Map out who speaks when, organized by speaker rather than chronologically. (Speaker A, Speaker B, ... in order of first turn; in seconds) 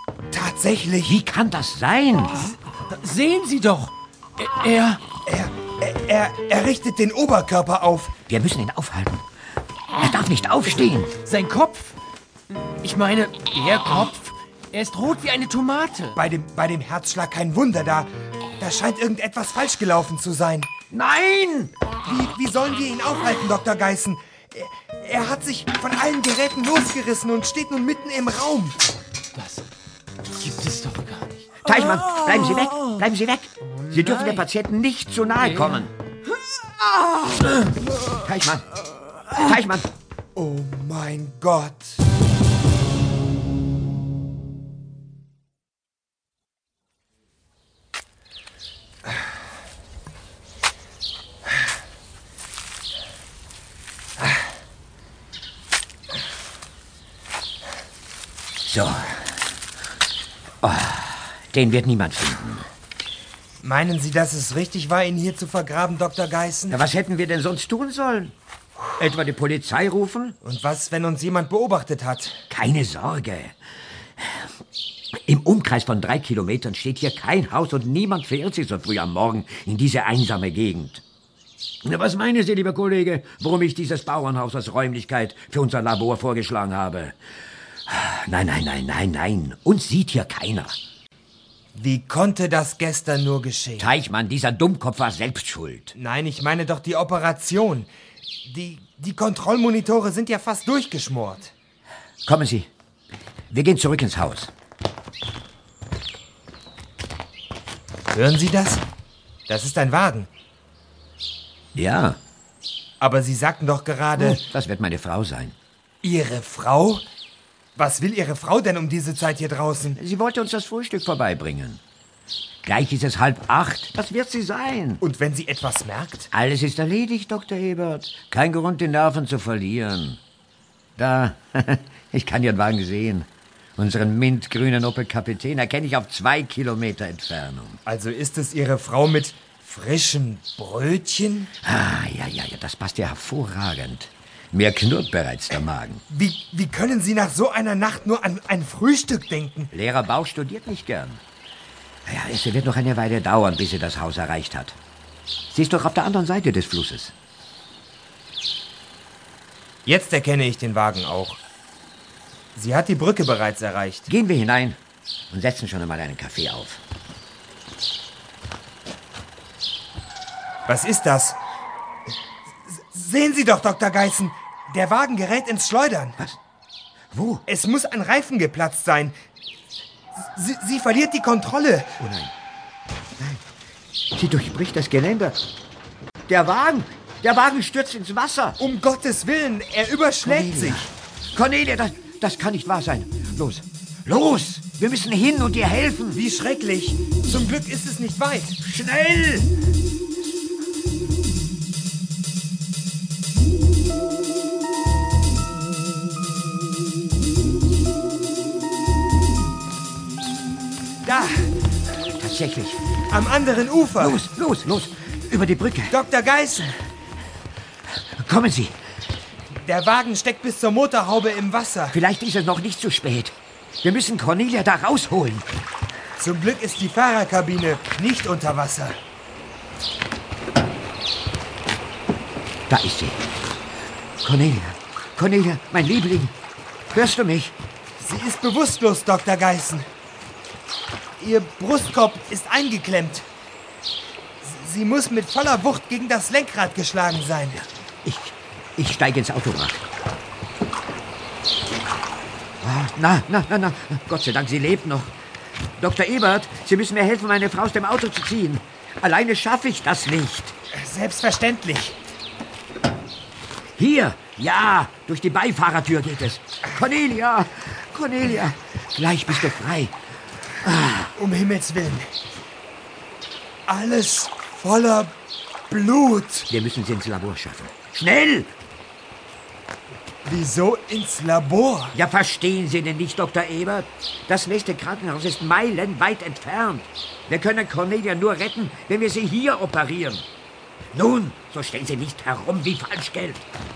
Speaker A: 0.3-1.2, 5.2-8.1, 16.1-20.7, 22.0-28.8, 40.4-41.9, 63.6-66.8, 70.4-72.4, 91.7-93.9, 96.0-97.9, 98.5-101.5, 108.1-108.8, 109.5-110.3, 113.0-114.4, 116.0-117.0, 117.8-120.0, 125.0-126.3, 137.8-141.5, 146.1-149.7, 159.8-161.4, 162.5-164.1, 170.7-171.4, 172.7-176.2, 177.5-179.1, 180.3-182.0, 188.6-190.9, 196.1-198.6, 211.0-211.5, 213.1-214.2, 215.9-216.8, 219.6-222.0, 226.2-228.9, 238.0-239.8, 241.2-243.2, 244.4-247.6, 260.7-261.9, 271.1-272.1, 273.7-275.1, 275.7-276.5, 280.2-282.0
Speaker B: 1.0-2.5, 8.3-9.2, 10.0-11.2, 20.9-21.7, 31.6-35.9, 38.2-38.7, 39.3-39.9, 58.6-59.2, 60.6-62.7, 66.7-68.3, 69.0-70.4, 72.5-73.5, 75.2-81.0, 81.8-87.2, 87.9-90.8, 93.8-95.9, 102.2-102.7, 103.5-104.5, 111.7-112.2, 114.2-115.5, 119.9-121.8, 122.6-125.0, 126.3-130.2, 131.0-137.8, 141.6-146.0, 149.7-151.2, 152.0-154.8, 155.5-157.1, 164.1-164.8, 165.3-166.8, 177.1-177.4, 182.0-182.3, 184.1-185.4, 186.3-188.6, 190.2-196.2, 198.6-199.5, 212.2-212.8, 214.0-216.0, 218.1-218.7, 221.9-225.4, 232.7-233.2, 234.2-236.3, 236.9-237.5, 247.6-249.8, 252.6-255.1, 255.8-260.5, 263.8-269.9, 270.6-271.1, 276.5-278.5, 281.9-290.2, 290.9-293.4
Speaker C: 2.9-5.0, 11.2-11.9, 12.8-16.2, 29.3-29.6, 30.4-32.7, 33.8-34.4, 35.4-35.8, 37.3-37.6